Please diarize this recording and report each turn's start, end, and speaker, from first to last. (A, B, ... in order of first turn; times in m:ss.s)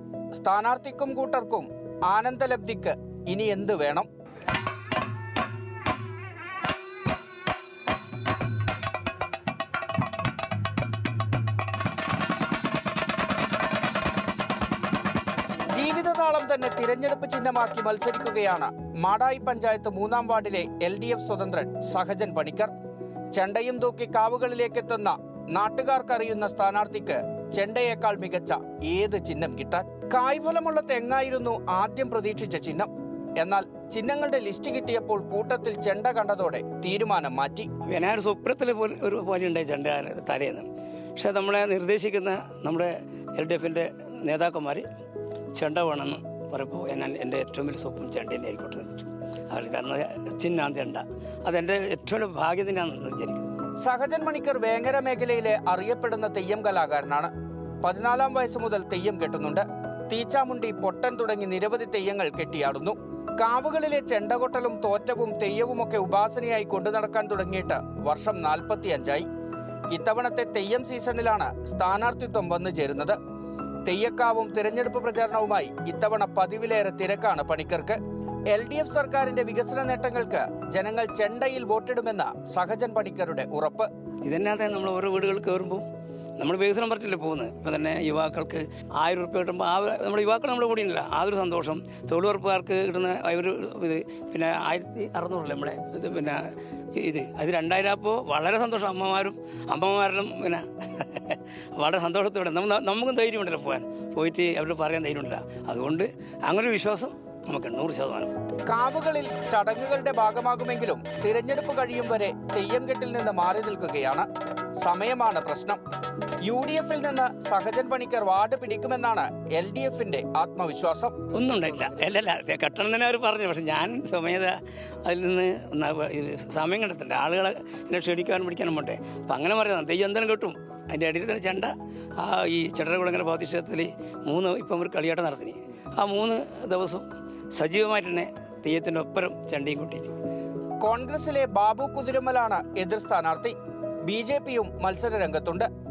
0:00.3-0:04.1 A
0:15.7-0:22.7 A
0:23.3-0:37.7 A
0:37.8-0:44.8 B
0:45.6-0:53.5 B
0:53.8-0:57.3 A
0:57.8-1:09.2 A
1:09.9-1:13.2 A
1:13.8-1:18.0 A
1:18.5-1:23.9 A
1:24.2-1:25.8 B
1:26.4-1:36.4 B
1:36.9-1:48.3 B
1:48.7-1:54.3 A
1:54.8-1:55.8 A
1:56.4-2:01.1 A
2:01.3-2:20.1 B
2:20.8-2:23.5 A
2:24.1-2:25.7 A